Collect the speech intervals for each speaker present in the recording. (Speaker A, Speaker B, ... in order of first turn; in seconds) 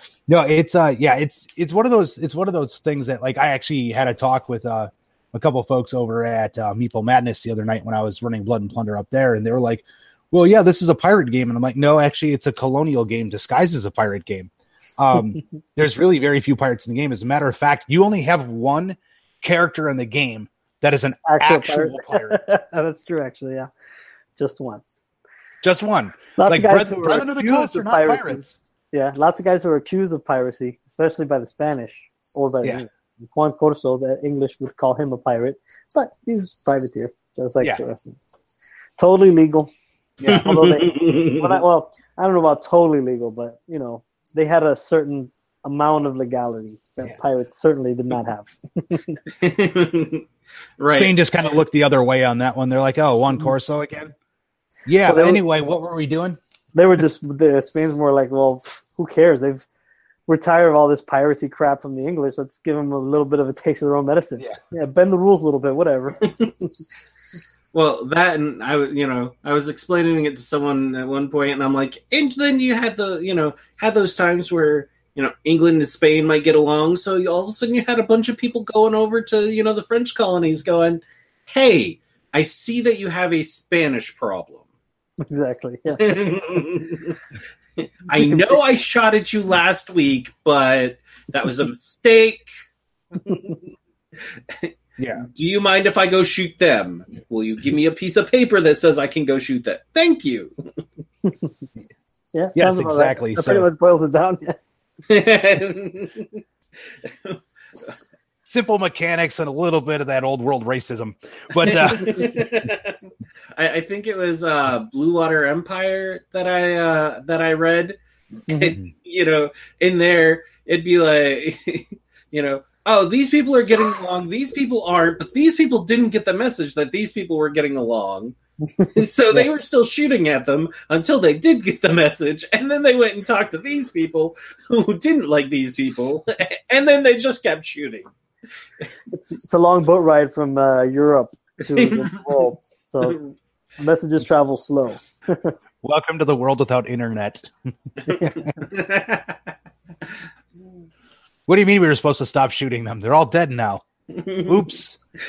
Speaker A: 0.3-22.4, 25.6-28.6, 40.2-40.5, 50.9-54.1, 54.9-56.4, 95.0-95.2, 102.6-103.7, 108.5-112.4, 145.8-147.5, 151.5-155.0
Speaker B: 21.3-23.7, 24.4-24.8, 26.4-38.2, 39.0-39.7, 40.3-49.2, 55.1-55.4, 56.7-59.7, 60.3-66.2, 85.2-86.8, 88.2-88.5, 102.3-104.6, 118.5-118.8, 139.1-143.2, 143.8-145.6, 148.1-148.4
Speaker C: 40.3-41.6, 49.4-50.2, 50.8-51.1, 67.7-84.7, 86.0-87.2, 87.8-92.5, 93.2-93.6, 94.5-100.5, 105.1-107.9, 111.6-113.0, 113.5-118.0, 118.5-138.1, 141.7-142.5, 148.6-149.5, 154.2-154.4